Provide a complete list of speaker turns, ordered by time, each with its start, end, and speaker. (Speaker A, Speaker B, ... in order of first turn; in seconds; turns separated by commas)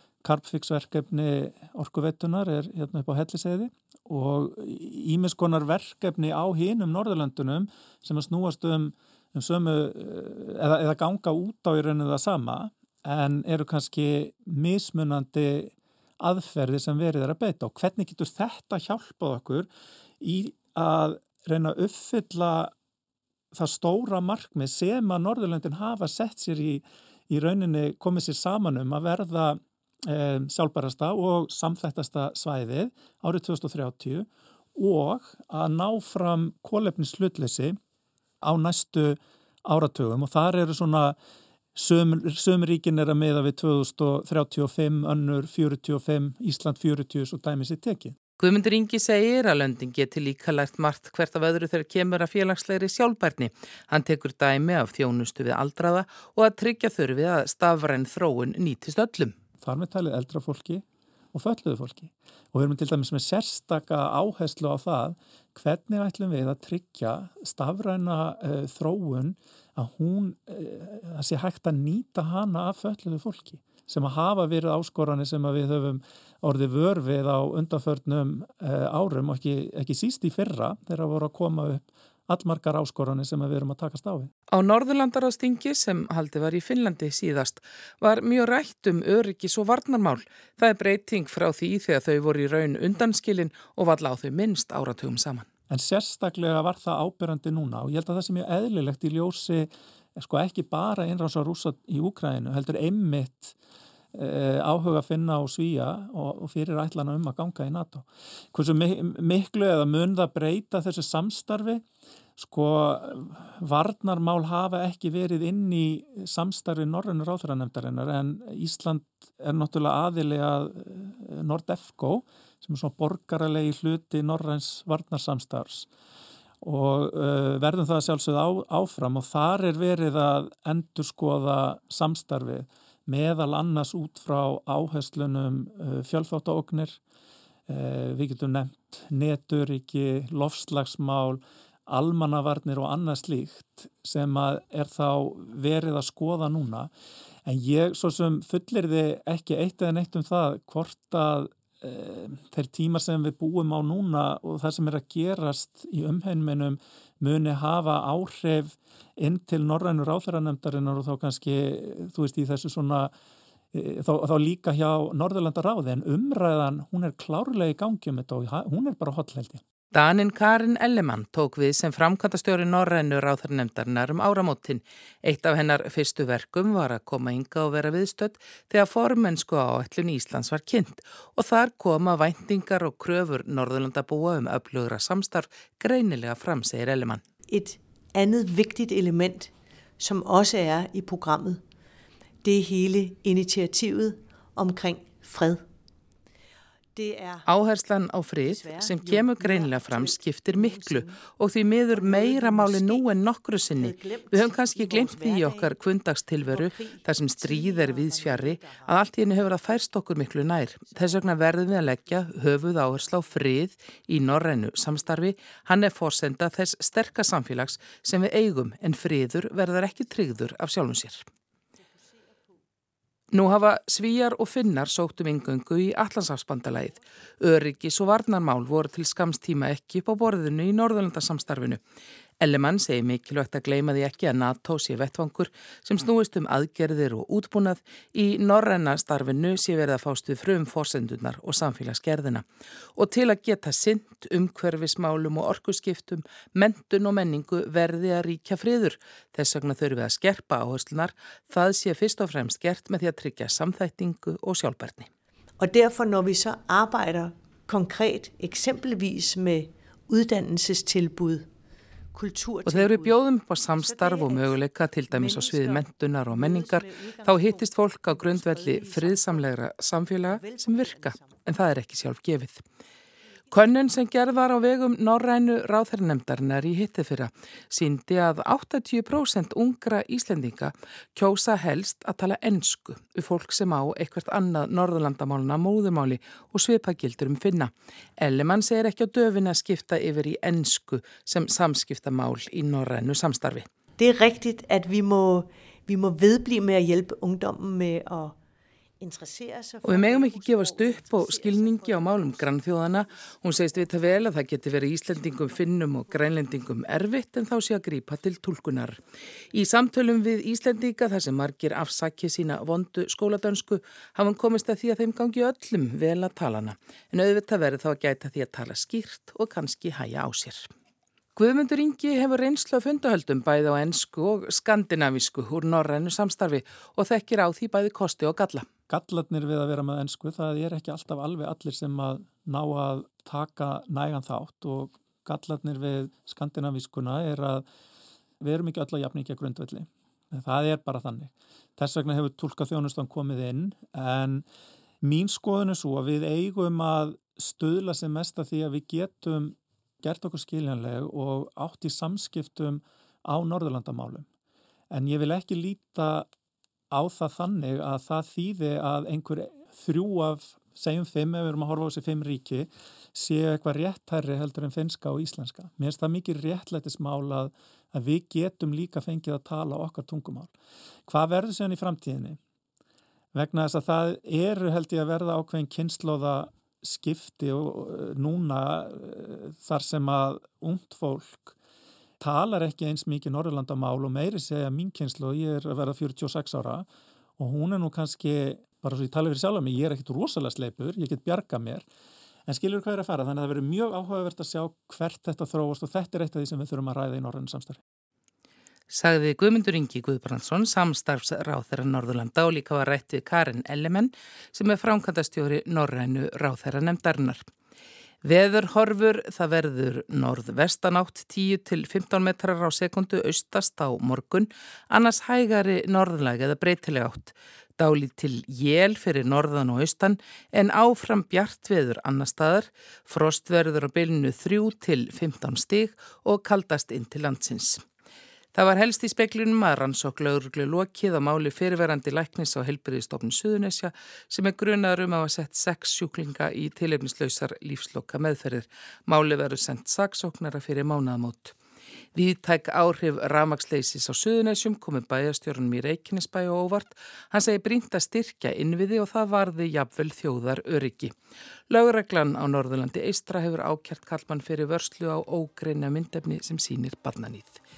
Speaker A: 0.2-19.7, Speaker A: 20.2-22.7, Speaker A: 23.5-37.8, Speaker A: 38.4-41.2, Speaker A: 41.8-48.2, Speaker B: 48.4-59.3, Speaker A: 59.6-84.3, Speaker B: 84.5-95.5, Speaker A: 95.7-103.6, Speaker A: 104.1-111.8, Speaker A: 112.4-125.9, Speaker A: 126.6-137.0, Speaker A: 137.7-146.9, Speaker A: 147.4-163.1, Speaker A: 163.7-169.6, Speaker B: 169.9-187.2, Speaker C: 187.5-191.6, Speaker C: 192.4-195.7, Speaker C: 196.9-197.5, Speaker B: 197.5-221.2, Speaker C: 198.4-201.2, Speaker C: 201.8-205.8, Speaker C: 206.5-209.0, Speaker B: 223.3-231.8, Speaker B: 232.4-242.4, Speaker B: 243.0-255.1, Speaker C: 255.6-261.5, Speaker C: 262.1-269.6, Speaker B: 262.6-272.6, Speaker C: 270.3-271.4, Speaker B: 273.5-293.7, Speaker C: 294.0-298.4, Speaker C: 299.0-303.9, Speaker B: 299.8-320.7, Speaker B: 321.4-328.7, Speaker A: 328.9-337.6, Speaker A: 338.4-344.4, Speaker A: 345.0-354.3, Speaker A: 354.9-356.3, Speaker A: 356.9-370.5, Speaker A: 371.1-372.4, Speaker A: 373.3-381.6, Speaker A: 382.2-386.9, Speaker A: 387.4-391.9, Speaker A: 392.5-397.8, Speaker B: 398.9-407.4, Speaker B: 408.2-427.8, Speaker B: 428.5-441.6, Speaker B: 442.1-451.1, Speaker B: 451.7-457.6